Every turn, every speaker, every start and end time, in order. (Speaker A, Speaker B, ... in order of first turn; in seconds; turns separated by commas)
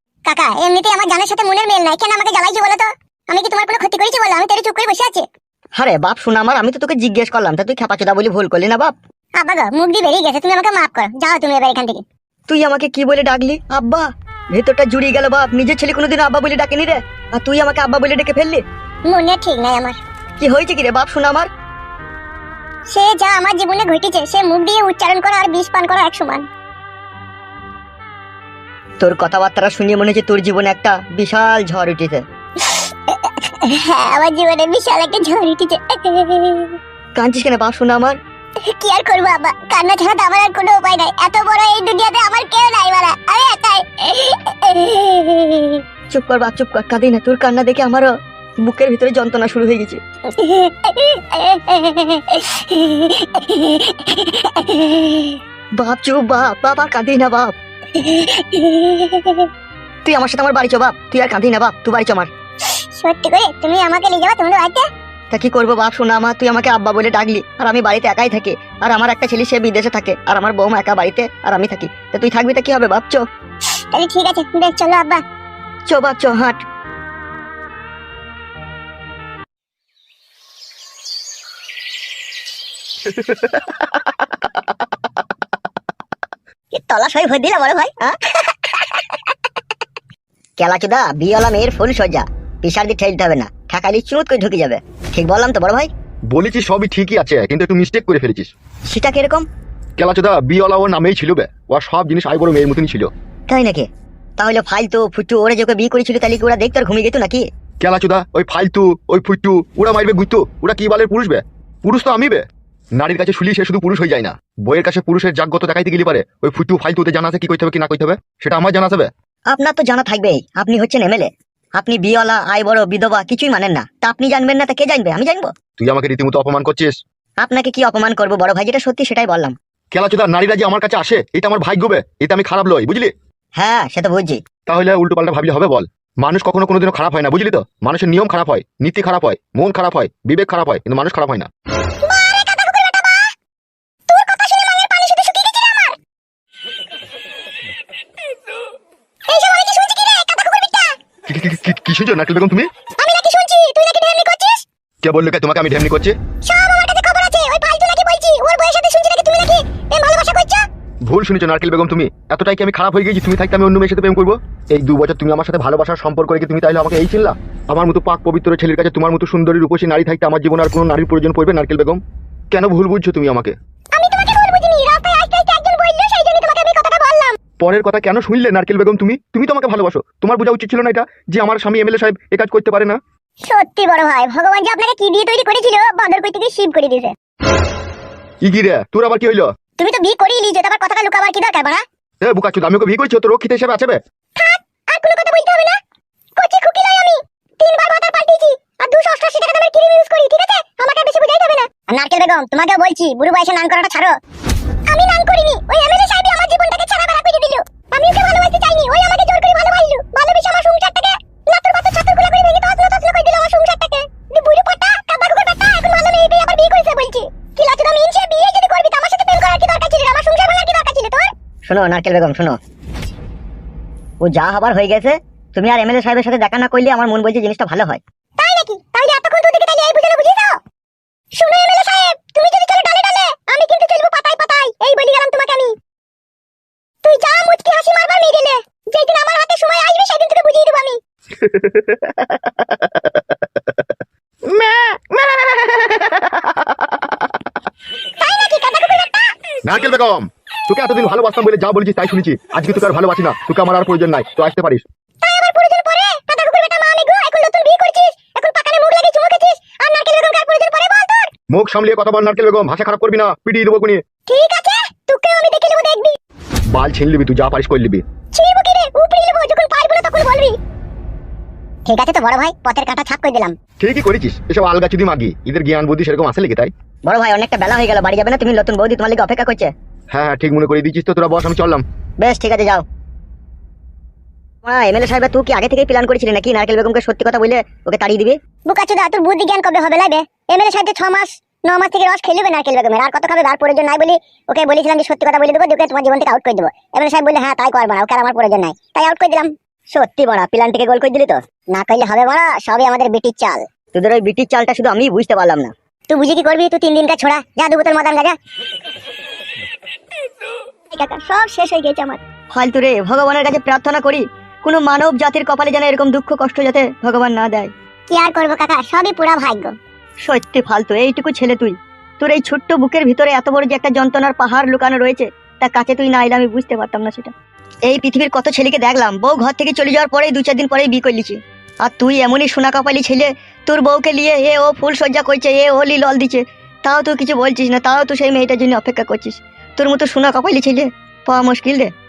Speaker A: 0.2-5.2, Speaker B: 5.8-8.9, Speaker A: 9.4-12.0, Speaker B: 12.5-18.6, Speaker A: 19.1-20.0, Speaker B: 20.4-21.5, Speaker A: 22.9-26.4, Speaker B: 29.0-32.2, Speaker A: 32.6-36.7, Speaker B: 37.1-38.2, Speaker A: 38.6-45.8, Speaker B: 46.1-48.1, Speaker B: 48.6-50.0, Speaker A: 50.3-55.4, Speaker B: 55.8-57.5, Speaker A: 58.0-59.5, Speaker B: 60.0-62.3, Speaker A: 63.0-64.8, Speaker B: 65.3-73.2, Speaker A: 73.9-75.2, Speaker B: 75.9-76.6, Speaker C: 83.2-83.6, Speaker A: 86.7-87.9, Speaker A: 88.6-89.0, Speaker B: 90.6-95.9, Speaker C: 96.3-98.5, Speaker B: 98.9-99.5, Speaker C: 100.0-103.1, Speaker B: 103.5-103.9, Speaker B: 104.4-107.4, Speaker C: 107.8-112.4, Speaker C: 113.0-119.1, Speaker B: 119.5-125.5, Speaker C: 125.8-126.9, Speaker B: 127.4-129.5, Speaker C: 129.9-133.1, Speaker B: 133.6-134.4, Speaker C: 134.7-141.5, Speaker A: 142.0-143.3, Speaker A: 144.1-145.9, Speaker A: 149.3-150.9, Speaker C: 151.3-152.7, Speaker A: 153.0-154.6, Speaker C: 155.0-156.2, Speaker A: 156.4-160.6, Speaker C: 161.1-172.0, Speaker C: 172.5-173.5, Speaker A: 173.9-177.3, Speaker C: 177.6-183.0, Speaker A: 183.4-187.1, Speaker C: 188.4-189.5, Speaker A: 189.8-191.8, Speaker C: 192.2-194.0, Speaker A: 194.4-195.8, Speaker A: 196.4-204.1, Speaker A: 204.9-221.3, Speaker B: 221.7-222.6, Speaker B: 224.2-228.0, Speaker A: 228.4-230.6, Speaker A: 231.3-235.7, Speaker A: 237.0-241.0, Speaker C: 241.4-243.2, Speaker C: 244.5-246.6, Speaker A: 248.2-249.3, Speaker C: 249.6-254.8, Speaker A: 255.2-261.3, Speaker C: 261.5-264.0, Speaker A: 264.3-266.1, Speaker C: 266.7-268.0, Speaker A: 268.3-270.5, Speaker A: 271.9-273.6, Speaker C: 273.8-276.7, Speaker B: 277.0-279.7, Speaker C: 280.1-281.8, Speaker B: 282.2-282.8, Speaker B: 284.6-288.4, Speaker A: 288.7-303.6, Speaker B: 303.9-305.7, Speaker A: 306.1-308.4, Speaker A: 310.9-312.2, Speaker B: 312.5-317.7, Speaker A: 318.1-319.7, Speaker B: 320.2-327.3, Speaker B: 327.9-341.9